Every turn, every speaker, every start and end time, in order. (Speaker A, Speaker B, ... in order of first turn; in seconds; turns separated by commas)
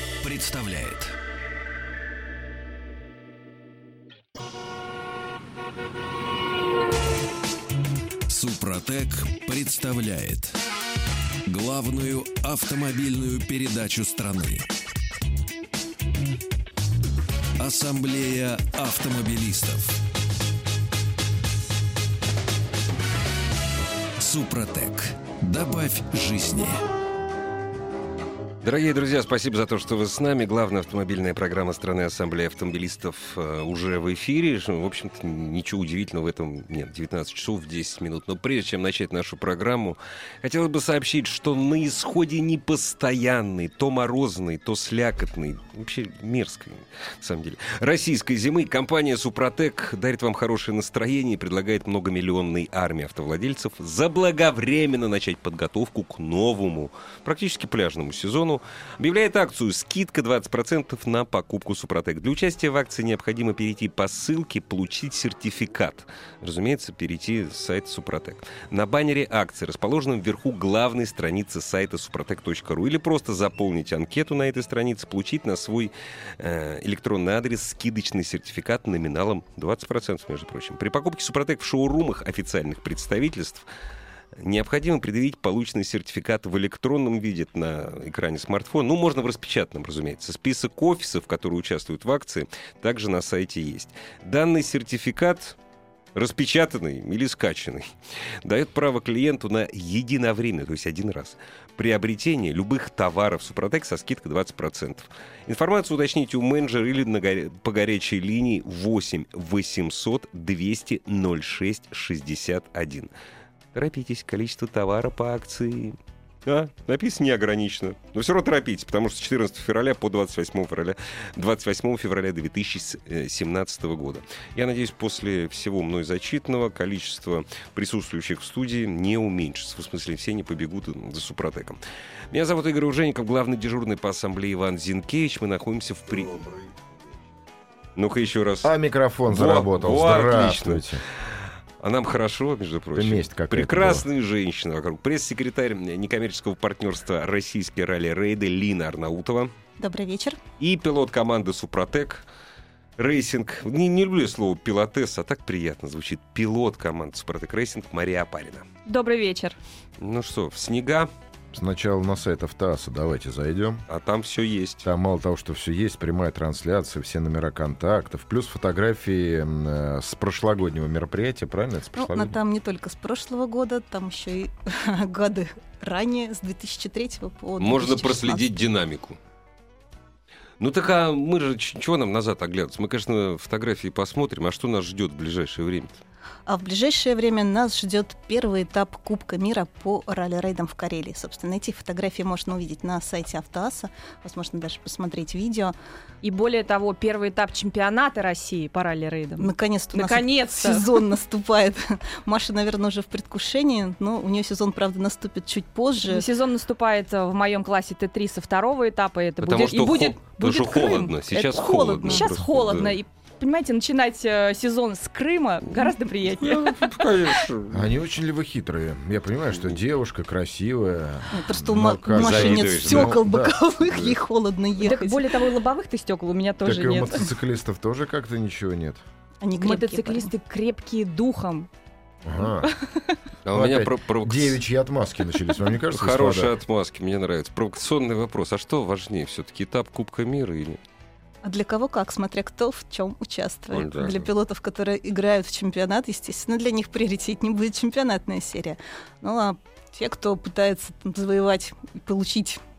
Speaker A: 0.2-1.1, Speaker A: 8.3-10.6, Speaker A: 11.5-14.7, Speaker A: 17.6-20.0, Speaker A: 24.2-26.8, Speaker B: 28.6-83.7, Speaker B: 84.4-95.6, Speaker B: 96.2-97.9, Speaker B: 98.4-113.1, Speaker B: 113.7-131.8, Speaker B: 132.3-136.5, Speaker B: 138.0-138.7, Speaker C: 138.6-141.0, Speaker B: 139.3-149.5, Speaker C: 142.9-144.1, Speaker D: 149.8-150.4, Speaker B: 150.6-152.2, Speaker B: 153.0-158.7, Speaker E: 158.9-159.6, Speaker B: 160.0-161.1, Speaker C: 161.5-163.8, Speaker B: 163.9-164.9, Speaker C: 164.8-172.3, Speaker D: 172.0-178.4, Speaker B: 177.6-179.2, Speaker B: 180.6-186.0, Speaker D: 186.5-195.8, Speaker E: 196.2-200.9, Speaker D: 199.4-206.3, Speaker E: 206.1-211.2, Speaker B: 209.4-213.0, Speaker D: 211.3-212.3, Speaker E: 212.1-216.9, Speaker B: 216.4-217.9, Speaker C: 217.7-223.6, Speaker D: 221.3-225.3, Speaker B: 222.1-223.2, Speaker B: 223.9-224.2, Speaker E: 224.8-227.3, Speaker C: 226.6-229.0, Speaker D: 229.4-230.3, Speaker E: 229.6-231.7, Speaker C: 232.2-232.7, Speaker E: 232.6-233.2, Speaker B: 233.4-234.6, Speaker C: 233.5-236.6, Speaker B: 235.9-240.8, Speaker D: 241.4-252.6, Speaker B: 243.7-244.3